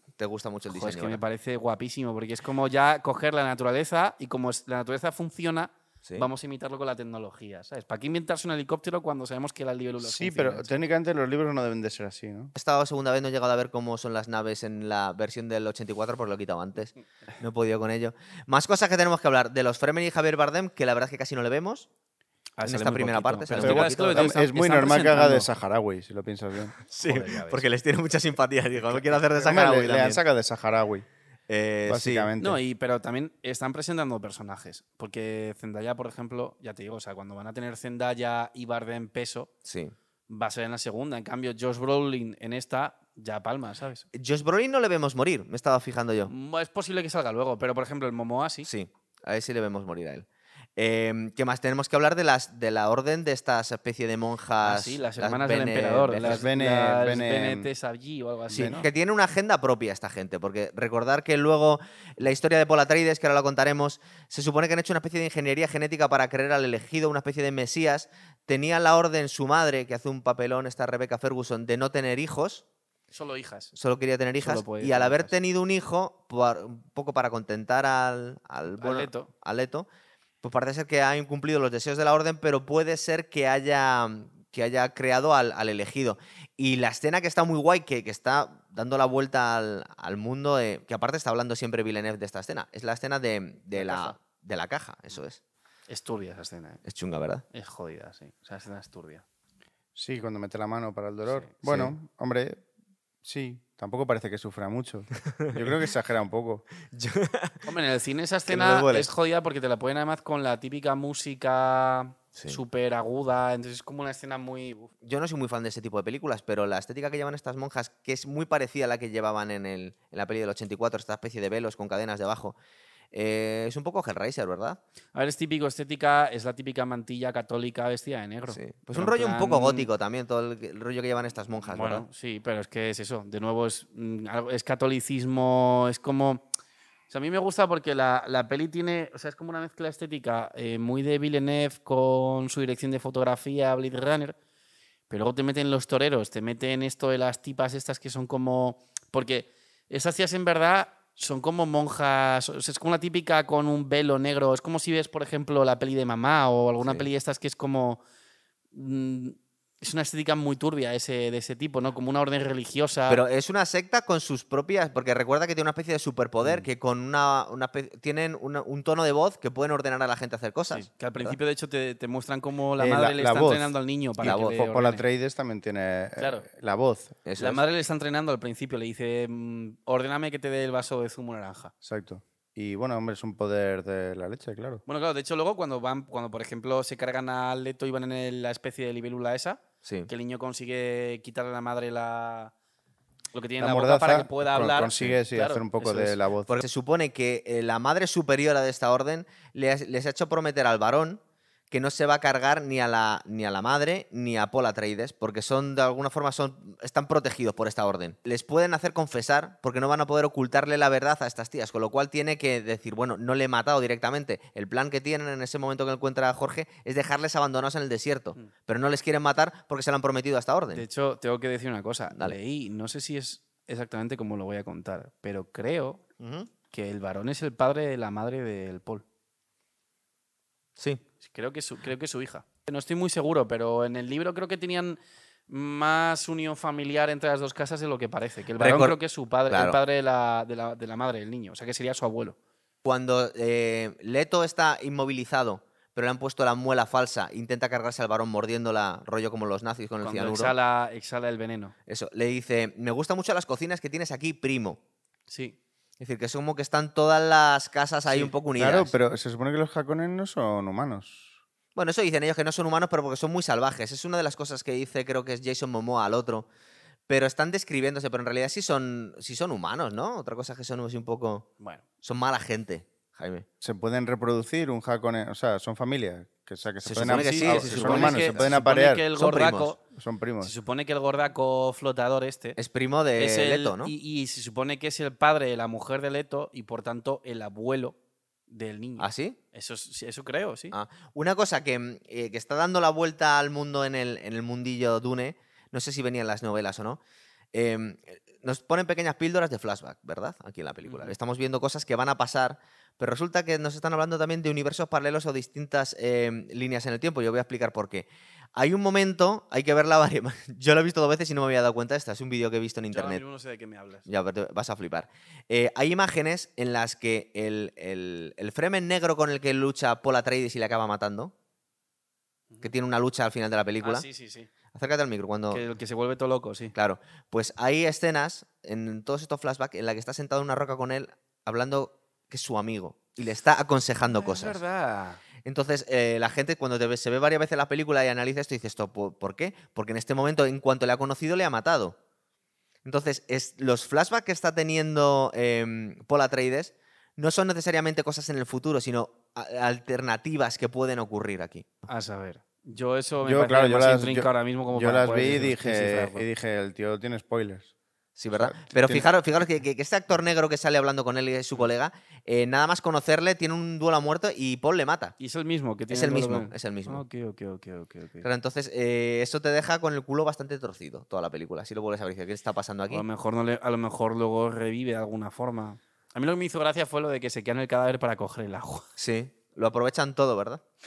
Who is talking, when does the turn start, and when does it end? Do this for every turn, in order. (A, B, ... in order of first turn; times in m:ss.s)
0:00.2-0:01.2 A
0:00.7-0:10.7 B
0:10.0-0:12.5 C
0:12.5-0:21.9 A
0:22.6-0:25.5 B
0:22.6-0:24.3 A
0:23.6-0:26.7 C
0:26.8-0:30.2 A
0:27.0-0:27.6 B
0:29.4-0:31.0 C
0:31.5-0:32.3 A
0:31.9-0:32.6 C
0:32.4-0:39.5 B
0:39.6-0:39.9 A
0:40.3-0:44.0 B
0:44.1-0:46.3 A
0:46.3-0:48.7 B
0:48.6-0:50.2 A
0:50.8-0:56.4 A
0:54.6-0:58.9 B
0:56.2-0:57.7 C
0:58.5-0:58.8 C
0:58.5-1:12.6 A
1:13.1-1:13.7 B
1:13.7-1:19.9 A
1:14.4-1:15.3 B
1:18.7-1:19.3 B
1:20.4-1:35.4 A
1:33.7-1:34.2 B
1:35.9-1:36.8 B
1:36.8-1:37.4 A
1:37.5-1:39.2 B
1:39.9-1:42.6 C
1:41.6-1:41.9 A
1:43.2-1:46.6 C
1:46.9-1:47.7 A
1:47.6-1:54.9 B
1:48.5-1:49.1 A
1:52.3-1:52.6 A
1:55.0-2:02.6 A
2:03.1-2:04.8 A
2:05.1-2:09.9 B
2:08.5-2:12.0 A
2:11.7-2:16.5 B
2:17.1-2:24.4 B
2:25.1-2:38.0 B
2:36.8-2:37.1 A
2:38.7-2:43.2 B
2:43.1-2:51.4 A
2:50.7-2:55.0 B
2:52.8-2:57.1 C
2:54.2-2:54.6 A
2:56.2-2:56.5 B
2:57.2-2:57.6 A
2:57.4-3:01.7 B
3:01.8-3:04.8 C
3:04.9-3:12.5 B
3:09.8-3:10.1 A
3:13.3-3:16.2 B
3:13.6-3:16.6 C
3:14.8-3:15.1 A
3:16.5-3:40.8 A
3:40.7-3:46.0 B
3:42.1-3:42.4 A
3:46.2-3:46.5 A
3:46.7-3:49.0 B
3:51.2-3:55.0 B
3:55.5-4:02.4 B
3:58.6-3:59.0 A
3:59.5-3:59.8 A
4:02.8-4:10.5 A
4:10.0-4:11.7 B
4:11.9-4:14.8 A
4:15.3-4:15.6 B
4:16.0-4:18.9 A
4:18.0-4:18.3 B
4:18.6-4:21.4 C
4:21.7-4:26.5 A
4:27.1-4:31.5 A
4:32.0-4:33.4 A
4:33.6-4:39.1 C
4:36.8-4:38.6 A
4:36.9-4:39.8 B
4:39.1-4:39.7 A
4:39.9-4:40.5 C
4:40.4-4:42.6 B
4:42.6-4:43.9 A
4:43.2-4:48.0 B
4:48.5-4:50.7 B
4:49.0-4:49.4 A
4:50.7-4:57.0 A
4:57.5-5:13.2 A
5:00.8-5:01.2 B
5:12.9-5:14.1 B
5:14.1-5:21.3 A
5:22.6-5:24.0 A
5:23.8-5:24.5 B
5:24.7-5:25.6 A
5:25.5-5:26.7 B
5:26.7-5:34.6 A
5:34.1-5:35.2 B
5:35.4-5:42.0 A
5:42.8-5:51.7 A
5:51.9-5:56.2 B
5:53.2-5:57.7 C
5:58.2-6:05.1 A
5:58.3-5:59.0 C
6:05.2-6:08.3 B
6:05.9-6:07.0 A
6:08.2-6:13.0 A
6:12.9-6:18.8 B
6:19.0-6:20.6 A